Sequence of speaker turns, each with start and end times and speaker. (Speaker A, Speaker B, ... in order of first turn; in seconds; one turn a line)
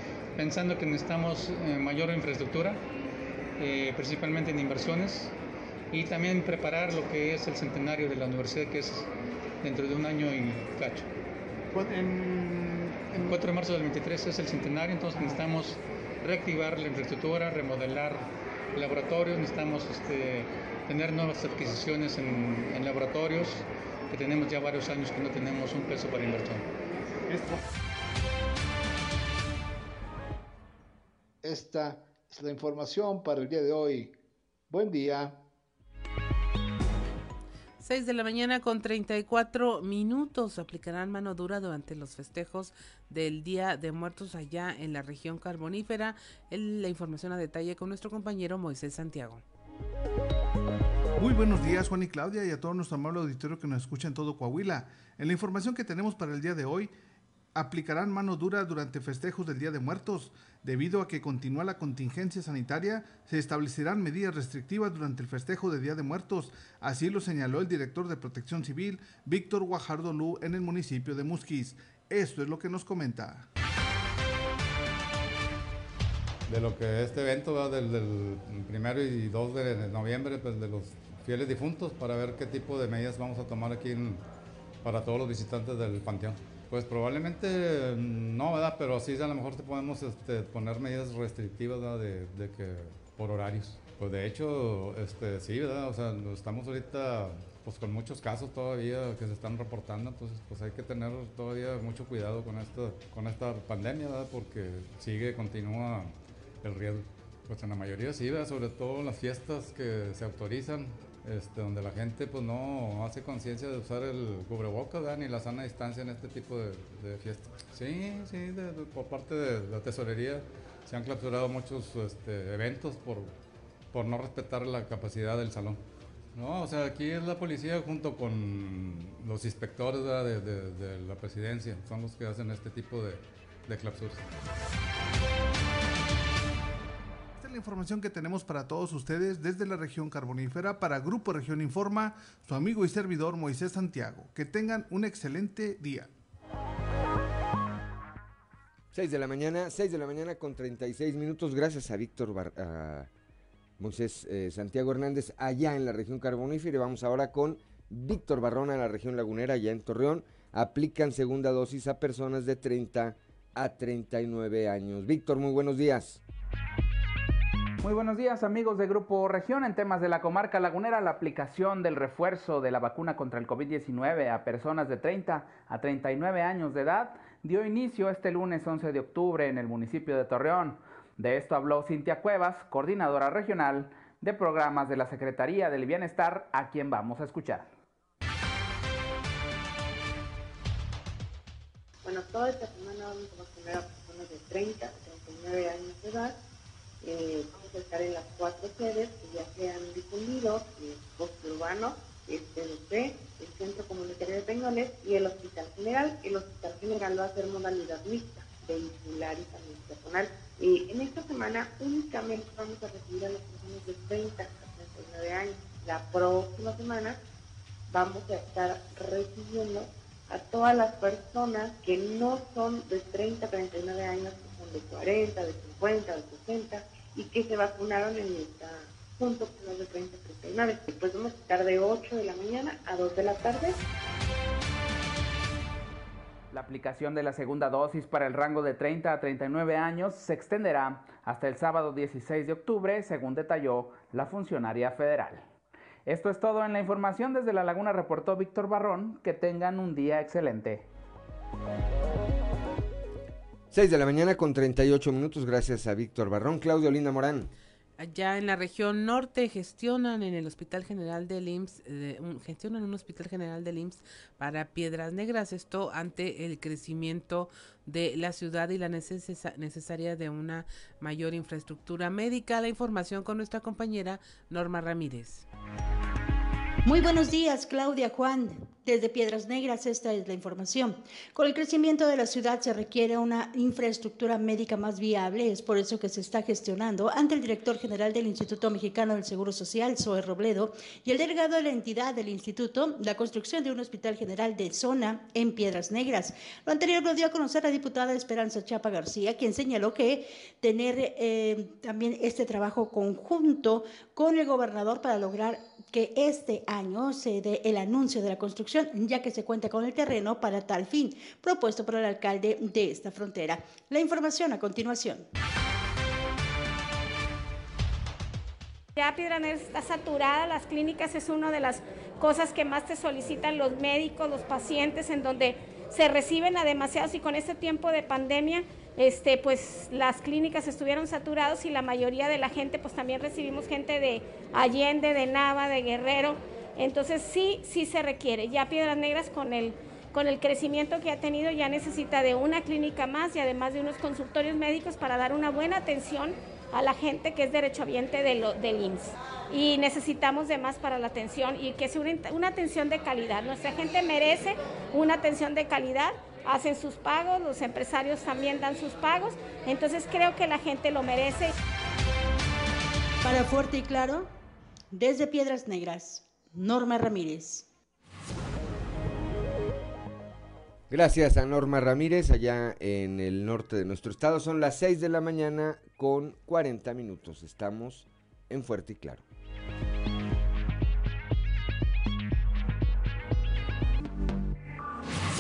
Speaker A: 0.4-2.8
Speaker A: 3.6-5.3
Speaker A: 5.9-9.1
Speaker A: 9.6-11.1
Speaker A: 11.9-26.6
Speaker B: 31.4-34.1
Speaker B: 34.7-35.4
Speaker C: 37.8-49.4
Speaker D: 51.2-56.9
Speaker D: 57.5-73.5
Speaker E: 76.5-84.2
Speaker E: 84.8-123.3
Speaker E: 123.9-125.8
Speaker E: 126.3-134.2
Speaker D: 137.4-146.1
Speaker F: 148.9-153.1
Speaker F: 153.8-166.2
Speaker G: 167.8-187.7
Speaker H: 192.0-196.4
Speaker H: 197.0-217.2
Speaker H: 217.9-233.8
Speaker G: 236.5-245.4
Speaker G: 246.1-250.9
Speaker F: 253.7-257.5
Speaker C: 258.0-275.4
Speaker I: 276.9-315.2
Speaker J: 318.9-361.5
Speaker I: 363.2-364.2
Speaker I: 364.9-367.6
Speaker F: 370.9-379.2